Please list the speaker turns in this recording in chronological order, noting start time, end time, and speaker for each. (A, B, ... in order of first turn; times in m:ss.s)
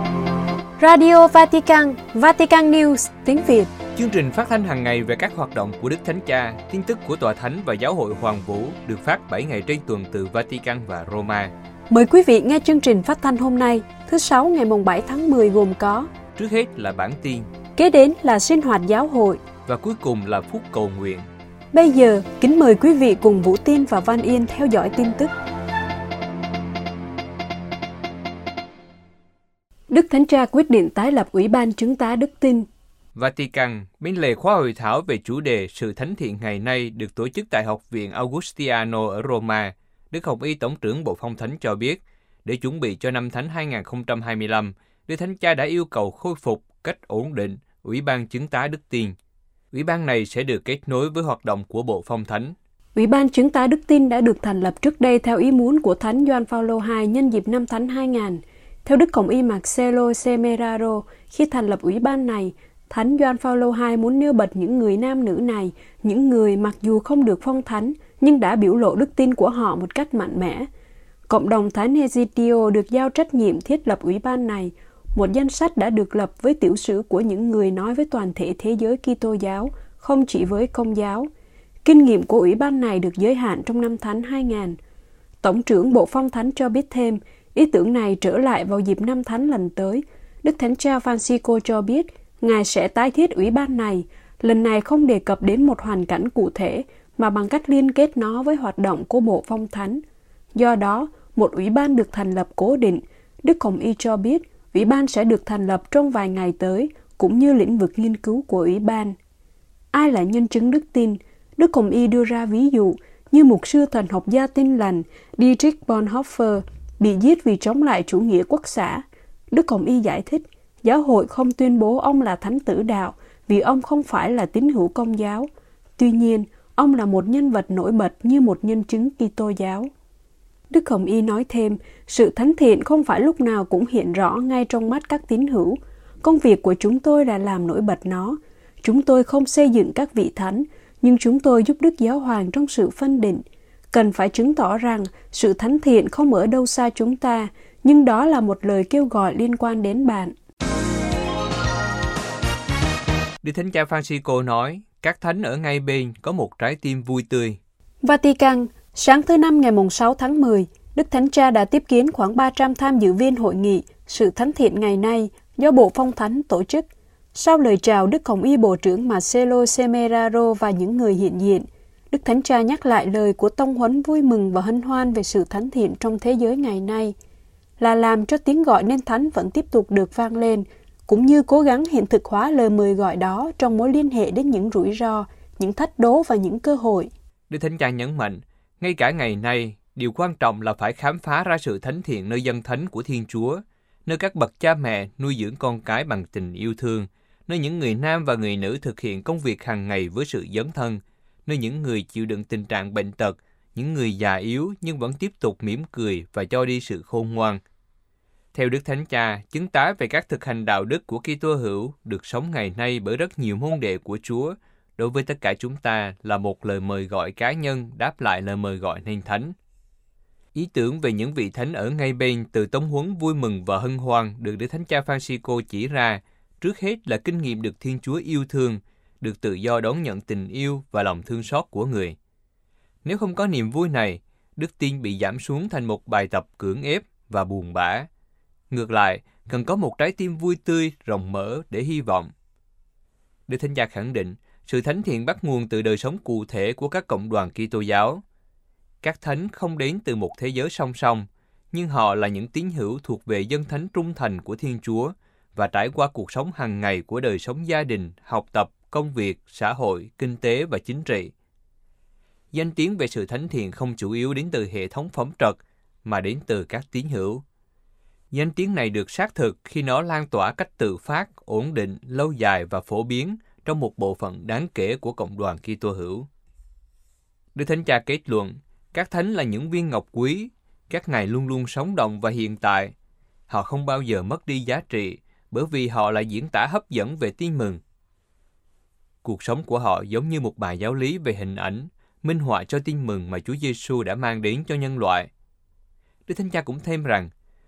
0:00.8-0:03.7 A
0:04.0-0:11.5 B
0:11.9-0:16.1 A
0:16.4-0:17.5 B
0:17.8-0:19.4 A
0:19.7-0:21.3 B
0:21.7-0:25.3 A
0:29.9-0:32.6 A
0:33.2-0:49.2 B
0:49.7-0:52.5 B
0:53.0-1:10.7 A
1:11.3-1:21.3 A
1:21.8-1:24.8 A
1:25.4-1:40.0 A
1:40.5-1:49.1 A
1:49.9-2:05.5 A
2:06.0-2:09.9 A
2:10.7-2:30.3 A
2:33.4-2:37.6 B
2:38.0-2:57.1 A
2:57.8-3:07.1 A
3:07.5-3:27.6 B
3:28.5-3:39.5 B
3:40.5-3:52.2 B
3:53.0-3:58.1 B
3:58.7-4:02.3 B
4:03.5-4:08.2 B
4:09.0-4:21.3 B
4:22.5-4:27.4 B
4:28.3-4:36.3 B
4:37.5-4:42.9 B
4:43.5-4:47.8 B
4:49.2-4:55.3 B
4:56.3-4:57.3 B